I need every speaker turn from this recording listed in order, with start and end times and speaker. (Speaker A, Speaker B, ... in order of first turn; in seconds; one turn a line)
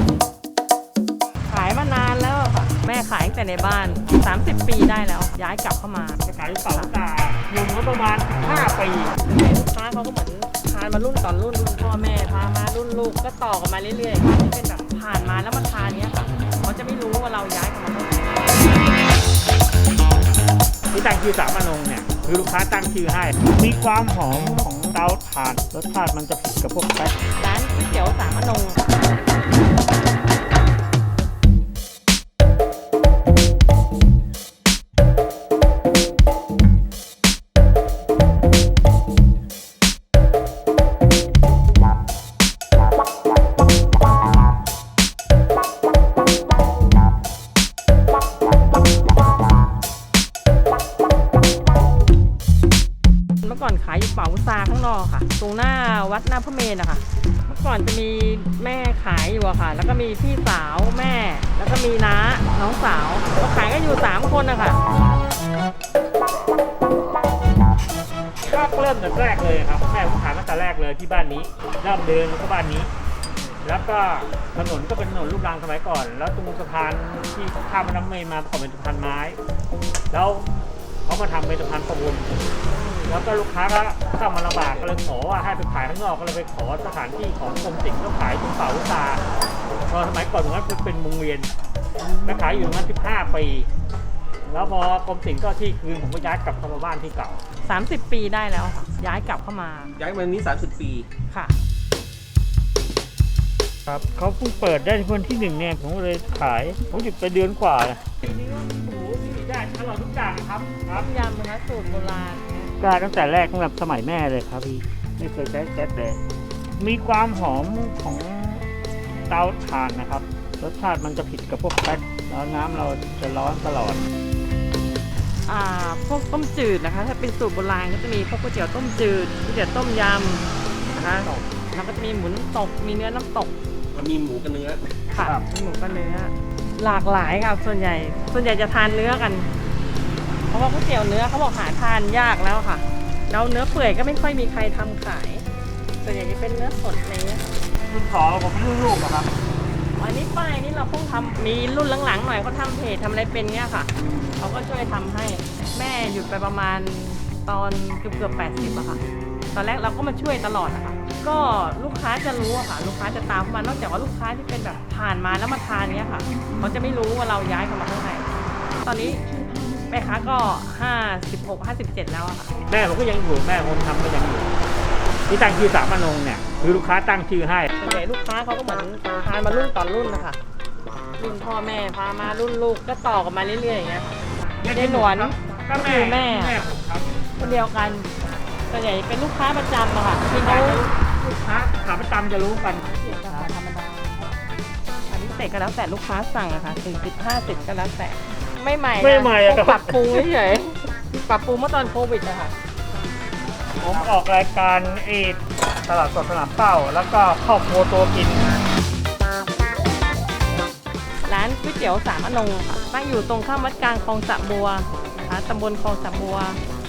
Speaker A: 1.5-6.9
Speaker B: 6.2-9.1
Speaker A: 9.2-18.6
Speaker B: 20.9-27.1
Speaker A: 27.4-28.8
Speaker A: 53.4-64.8
Speaker B: 68.4-72.9
Speaker B: 73.6-79.4
Speaker B: 80.1-80.4
Speaker B: 81.0-82.3
Speaker B: 83.0-89.2
Speaker B: 89.9-91.5
Speaker B: 92.2-93.7
Speaker B: 94.4-97.4
Speaker A: 97.7-100.0
Speaker C: 100.0-101.1
Speaker A: 101.3-101.5
Speaker B: 103.9-111.1
Speaker A: 110.9-112.7
Speaker B: 112.8-116.2
Speaker B: 116.8-118.7
Speaker B: 119.3-124.0
Speaker A: 125.5-133.5
Speaker B: 130.9-131.4
Speaker C: 133.9-134.8
Speaker A: 135.1-139.5
Speaker B: 135.2-135.4
Speaker A: 140.5-145.4
Speaker A: 146.0-147.5
Speaker B: 147.9-149.3
Speaker A: 150.0-159.0
Speaker B: 154.0-154.4
Speaker A: 159.5-168.3
Speaker A: 168.8-169.2
Speaker A: 169.9-172.5
Speaker B: 172.7-174.5
Speaker B: 175.3-177.7
Speaker A: 177.8-180.4
Speaker A: 181.2-184.1
Speaker B: 184.6-187.1
Speaker A: 184.6-186.6
Speaker A: 187.4-188.1
Speaker A: 188.7-190.9
Speaker B: 190.3-193.5
Speaker A: 192.8-194.3
Speaker A: 195.1-202.5
Speaker B: 199.0-200.2
Speaker B: 203.8-208.5
Speaker A: 211.2-216.6